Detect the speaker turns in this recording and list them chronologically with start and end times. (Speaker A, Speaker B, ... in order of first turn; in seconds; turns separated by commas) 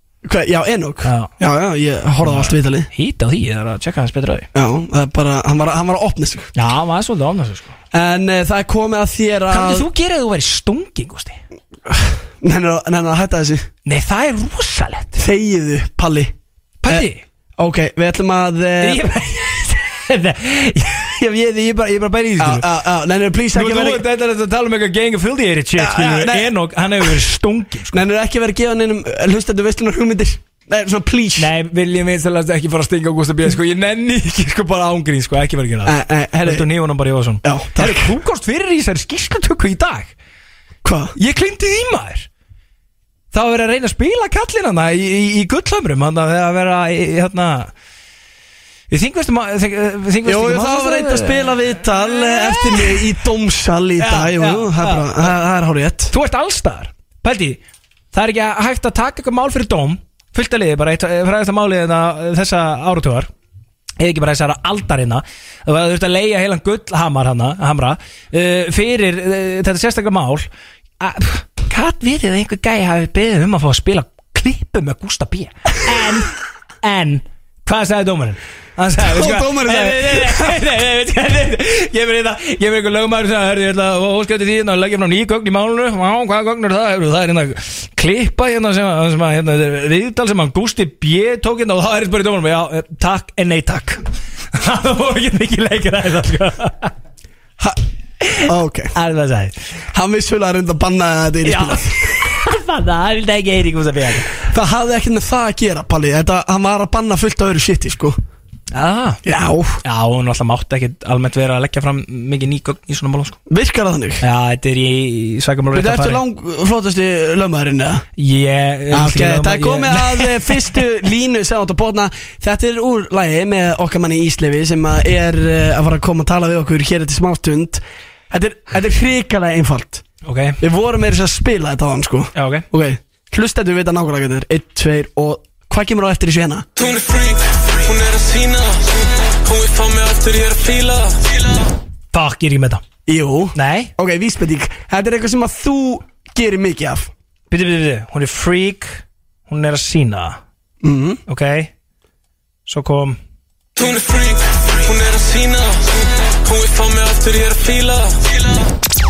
Speaker A: 0.2-2.9, Speaker B: 1.0-1.3, Speaker B: 2.2-4.5, Speaker A: 4.5-6.5, Speaker B: 6.6-7.7, Speaker A: 7.9-9.9, Speaker B: 9.5-11.4, Speaker A: 11.9-13.7, Speaker B: 13.8-15.2, Speaker A: 15.2-16.3, Speaker B: 16.8-17.2, Speaker A: 17.6-19.1, Speaker B: 18.8-22.6, Speaker A: 22.4-24.0, Speaker B: 23.5-28.0, Speaker A: 25.8-27.1, Speaker A: 27.9-31.5, Speaker B: 31.4-40.1, Speaker A: 35.9-36.7, Speaker A: 37.4-38.1, Speaker A: 40.8-41.1, Speaker B: 41.2-42.3, Speaker B: 43.3-47.7, Speaker B: 48.9-53.1, Speaker A: 50.2-56.1, Speaker B: 54.0-55.3, Speaker B: 56.1-57.6, Speaker B: 58.1-63.3, Speaker B: 64.0-70.5, Speaker B: 71.0-96.9, Speaker A: 79.0-80.6, Speaker B: 98.2-99.5, Speaker A: 98.4-98.9, Speaker A: 99.9-102.1, Speaker B: 101.4-104.3, Speaker A: 104.4-108.2, Speaker B: 108.7-109.2, Speaker A: 109.2-109.8, Speaker B: 109.8-113.4, Speaker A: 113.5-114.2, Speaker B: 114.2-116.2, Speaker A: 115.7-118.1, Speaker B: 118.2-120.8, Speaker A: 118.9-130.0, Speaker B: 130.2-130.6, Speaker A: 130.6-136.7, Speaker B: 132.3-132.7, Speaker C: 136.8-141.6, Speaker B: 142.1-142.8, Speaker A: 143.1-147.1, Speaker B: 143.6-143.9, Speaker B: 147.5-150.4, Speaker A: 150.8-151.2, Speaker B: 151.3-151.7, Speaker B: 152.7-153.2, Speaker C: 153.8-158.6